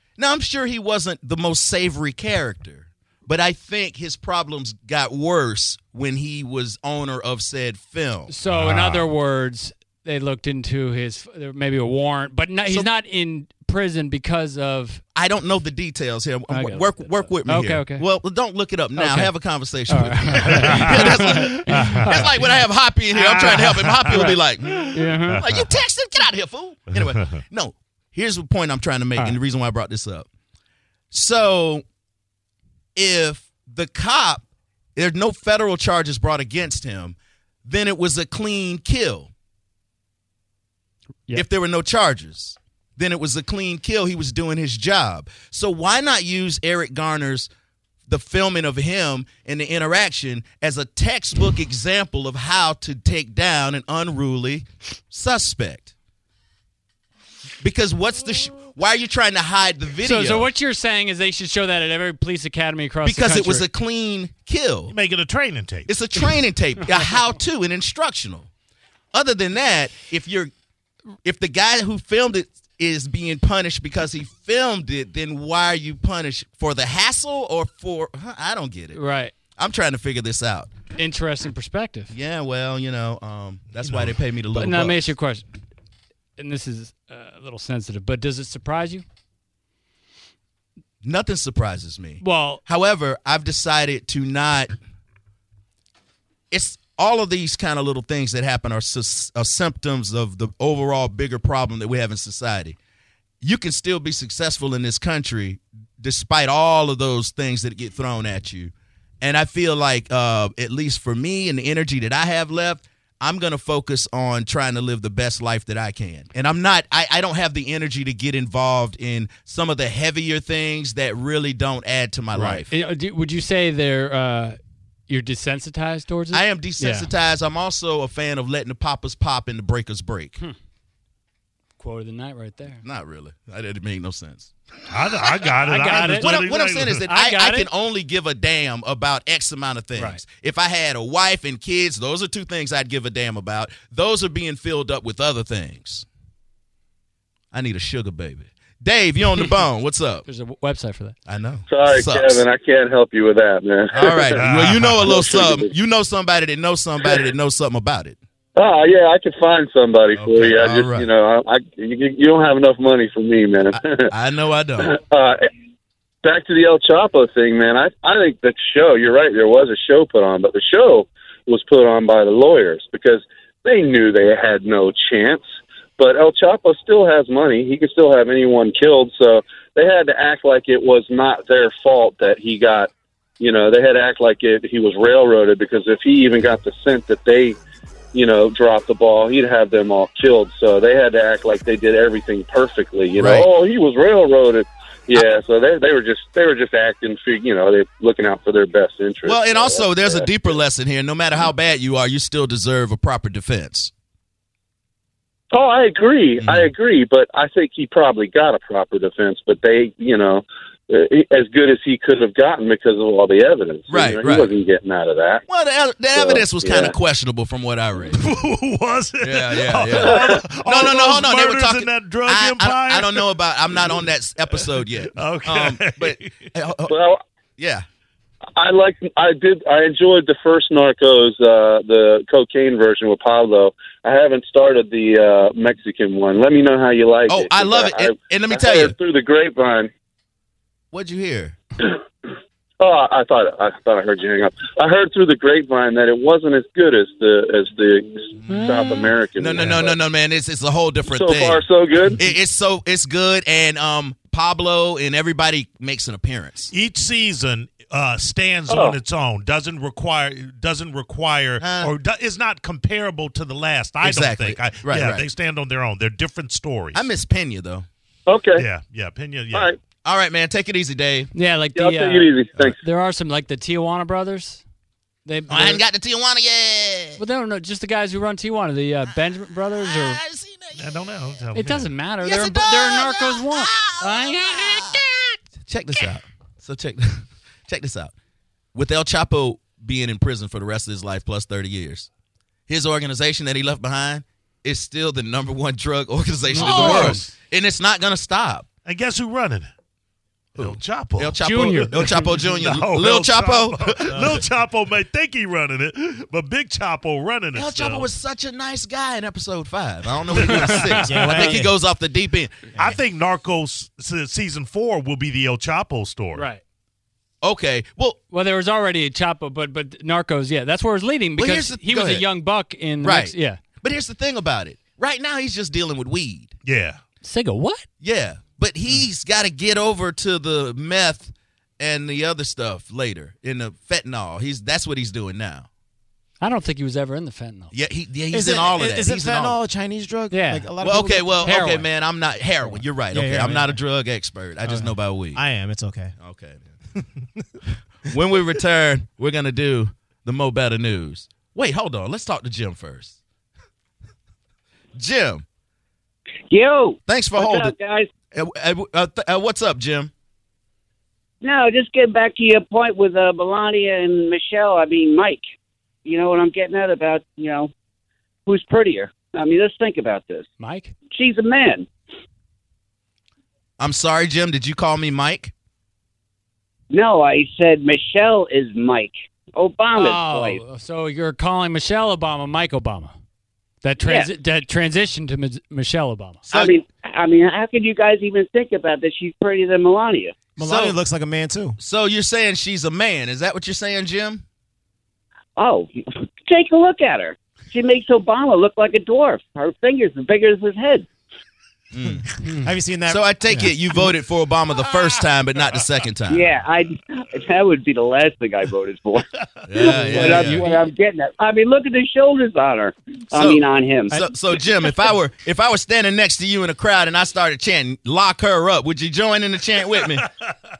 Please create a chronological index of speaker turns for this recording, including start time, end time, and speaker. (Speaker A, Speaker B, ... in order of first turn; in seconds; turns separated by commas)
Speaker A: 0.2-8.3, Speaker B: 8.3-15.0, Speaker C: 8.5-9.1, Speaker A: 15.1-30.3, Speaker B: 16.5-18.1, Speaker B: 18.9-22.4, Speaker C: 20.5-21.2, Speaker C: 21.8-22.1, Speaker C: 23.1-25.7, Speaker B: 24.1-24.4, Speaker B: 24.9-25.5, Speaker A: 31.1-31.8, Speaker A: 33.0-34.4, Speaker A: 35.0-39.3, Speaker A: 41.3-47.5, Speaker A: 48.1-55.9, Speaker A: 57.6-60.5, Speaker B: 60.0-63.7, Speaker A: 63.0-64.9, Speaker C: 64.9-65.9, Speaker A: 65.8-68.5, Speaker A: 69.1-70.5, Speaker A: 71.2-79.0, Speaker B: 78.9-79.3, Speaker A: 79.5-80.7, Speaker B: 80.9-82.1, Speaker A: 82.1-85.0, Speaker C: 83.8-84.2, Speaker B: 84.5-85.5, Speaker B: 86.4-89.0, Speaker A: 91.0-94.7, Speaker B: 92.2-92.6, Speaker A: 96.5-102.8, Speaker A: 103.4-122.7, Speaker B: 122.3-124.6, Speaker B: 125.1-127.1, Speaker A: 126.3-130.3, Speaker B: 131.8-132.8, Speaker A: 132.8-134.5, Speaker C: 134.9-137.1, Speaker B: 135.6-136.3, Speaker A: 136.1-146.1, Speaker B: 137.0-137.7, Speaker B: 139.9-140.2, Speaker A: 147.5-150.2, Speaker B: 150.2-151.1, Speaker A: 151.3-152.4, Speaker D: 151.7-155.7, Speaker A: 153.9-158.2, Speaker C: 154.3-155.1, Speaker D: 158.5-164.0, Speaker A: 160.1-161.1, Speaker A: 163.7-165.0, Speaker D: 164.8-165.4, Speaker D: 166.2-175.4, Speaker D: 176.0-187.6, Speaker D: 188.1-200.5, Speaker A: 193.2-193.5, Speaker A: 199.2-203.9, Speaker D: 205.5-215.4, Speaker A: 206.4-206.7, Speaker A: 213.9-214.5, Speaker A: 215.5-218.2, Speaker D: 216.1-216.9, Speaker C: 218.1-226.5, Speaker A: 219.2-226.9, Speaker D: 226.9-227.2, Speaker A: 227.6-227.8, Speaker D: 228.6-239.9, Speaker A: 237.3-238.9, Speaker A: 240.9-241.6, Speaker D: 242.8-250.0, Speaker B: 248.5-249.1, Speaker A: 249.4-251.6, Speaker D: 251.1-252.2, Speaker A: 252.2-256.7, Speaker C: 256.7-267.0, Speaker D: 258.7-258.9, Speaker A: 261.6-261.9, Speaker A: 264.0-265.3, Speaker A: 266.9-267.9, Speaker D: 268.3-268.6, Speaker C: 268.6-269.7, Speaker A: 270.0-271.3, Speaker B: 271.3-274.6, Speaker D: 271.7-272.8, Speaker B: 275.2-275.8, Speaker A: 275.5-277.2, Speaker B: 277.2-280.2, Speaker A: 279.1-281.0, Speaker C: 280.8-281.9, Speaker B: 281.5-285.2, Speaker A: 282.2-285.0, Speaker A: 285.6-288.1, Speaker A: 288.7-292.1, Speaker A: 292.7-298.6, Speaker B: 296.5-297.3, Speaker C: 296.5-297.2, Speaker C: 298.8-299.7, Speaker A: 300.6-304.4, Speaker C: 300.6-308.1, Speaker B: 301.4-302.3, Speaker A: 307.5-312.7, Speaker B: 310.4-311.6, Speaker C: 310.4-310.9, Speaker E: 311.0-311.7, Speaker C: 312.7-316.5, Speaker B: 316.3-316.6, Speaker A: 317.4-318.2, Speaker B: 318.3-323.6, Speaker A: 321.4-322.2, Speaker A: 323.0-326.5, Speaker C: 326.6-327.0, Speaker B: 327.2-327.9, Speaker A: 328.0-335.7, Speaker B: 336.4-337.7, Speaker A: 337.7-339.6, Speaker E: 338.3-341.5, Speaker B: 340.3-340.7, Speaker A: 340.8-345.4, Speaker B: 341.4-341.9, Speaker E: 342.6-343.9, Speaker E: 344.6-346.1, Speaker A: 346.2-346.7, Speaker E: 346.9-347.4, Speaker A: 348.0-353.1, Speaker A: 354.9-355.4, Speaker F: 356.5-358.1, Speaker A: 357.1-357.7, Speaker A: 358.3-360.1, Speaker F: 361.4-365.4, Speaker F: 366.0-367.7, Speaker F: 368.4-370.5, Speaker B: 370.6-370.9, Speaker F: 371.1-371.9, Speaker A: 373.8-375.5, Speaker F: 376.9-380.6, Speaker B: 379.9-383.1, Speaker B: 383.8-386.4, Speaker F: 384.0-384.3, Speaker A: 386.5-386.8, Speaker F: 386.5-390.3, Speaker E: 390.6-391.8, Speaker A: 390.6-391.0, Speaker A: 391.8-394.4, Speaker F: 395.6-401.1, Speaker A: 401.9-402.3, Speaker E: 402.0-403.7, Speaker A: 403.1-406.5, Speaker F: 406.3-414.2, Speaker A: 409.7-410.6, Speaker E: 410.1-410.5, Speaker C: 410.2-410.7, Speaker A: 413.3-420.2